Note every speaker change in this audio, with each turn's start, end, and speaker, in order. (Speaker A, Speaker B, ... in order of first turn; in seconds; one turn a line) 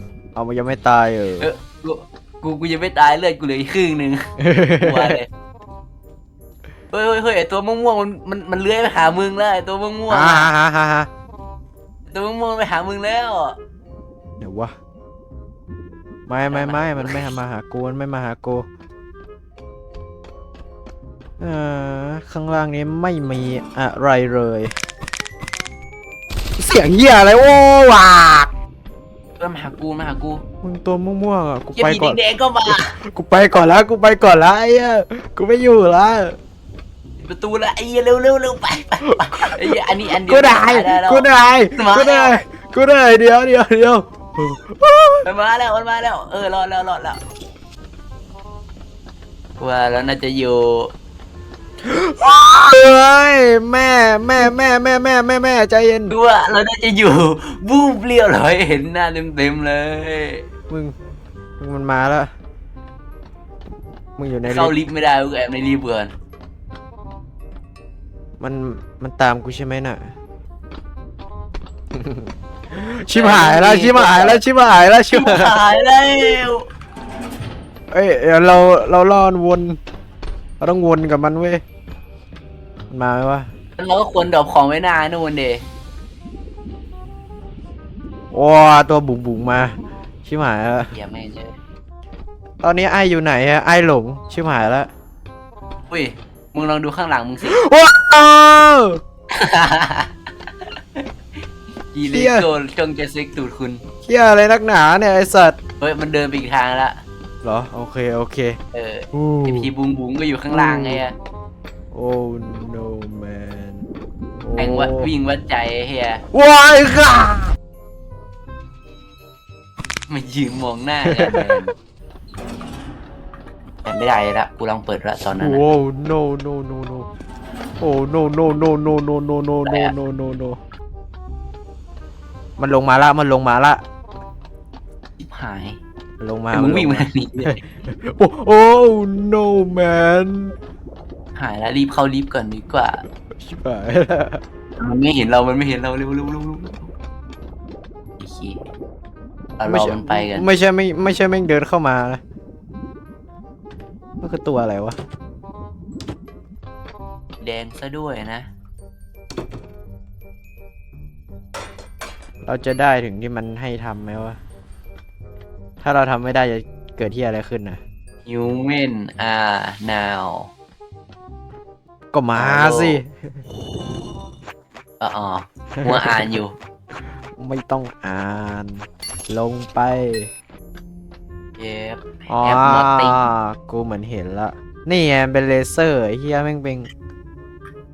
Speaker A: 0.3-1.5
Speaker B: 1.4-5.3
Speaker A: 4.4-5.2
Speaker B: 6.9-10.5
Speaker A: 10.1-11.1
Speaker B: 12.1-13.6
Speaker A: 14.4-14.7
Speaker A: 16.3-18.6
Speaker B: 16.5-17.3
Speaker A: 21.4-24.7
Speaker A: 26.6-28.5
Speaker B: 29.4-30.4
Speaker A: 30.6-36.4
Speaker B: 31.7-32.9
Speaker B: 37.2-42.4
Speaker A: 39.0-39.7
Speaker A: 40.2-45.2
Speaker B: 45.2-47.2
Speaker B: 49.6-50.9
Speaker A: 51.8-56.1
Speaker B: 56.1-60.4
Speaker A: 60.7-60.9
Speaker A: 61.6-62.3
Speaker A: 64.2-64.7
Speaker B: 64.5-66.1
Speaker A: 68.4-70.1
Speaker A: 71.9-75.5
Speaker B: 73.1-74.4
Speaker B: 75.1-76.7
Speaker A: 77.9-79.8
Speaker A: 80.6-81.6
Speaker A: 82.9-83.5
Speaker B: 83.8-85.6
Speaker A: 88.3-90.9
Speaker B: 90.9-91.5
Speaker A: 92.6-94.9
Speaker B: 95.9-97.6
Speaker A: 97.4-99.0
Speaker B: 99.3-100.1
Speaker B: 101.9-103.8
Speaker A: 102.1-102.5
Speaker A: 104.0-105.6
Speaker B: 105.8-107.0
Speaker A: 107.4-108.6
Speaker B: 108.7-111.1
Speaker A: 109.1-109.7
Speaker A: 110.5-111.0
Speaker A: 111.9-113.8
Speaker A: 114.4-115.1
Speaker B: 114.5-116.2
Speaker A: 116.3-117.5
Speaker B: 120.1-121.7
Speaker A: 121.0-121.6
Speaker B: 123.8-125.7
Speaker A: 125.3-127.1
Speaker A: 127.8-130.6
Speaker B: 129.6-129.9
Speaker A: 132.6-133.8
Speaker B: 135.2-135.8
Speaker A: 136.2-140.5
Speaker B: 136.5-137.6
Speaker B: 141.3-143.0
Speaker A: 143.4-144.4
Speaker B: 144.8-146.9
Speaker B: 148.2-148.6
Speaker B: 149.6-150.4
Speaker A: 149.6-152.2
Speaker A: 154.2-155.0
Speaker B: 157.4-158.5
Speaker A: 162.4-164.4
Speaker A: 165.8-167.8
Speaker B: 168.2-170.5
Speaker A: 172.1-173.4
Speaker B: 172.3-173.0
Speaker B: 175.0-176.5
Speaker A: 175.7-176.3
Speaker A: 177.3-180.3
Speaker B: 181.6-183.3
Speaker A: 182.3-186.9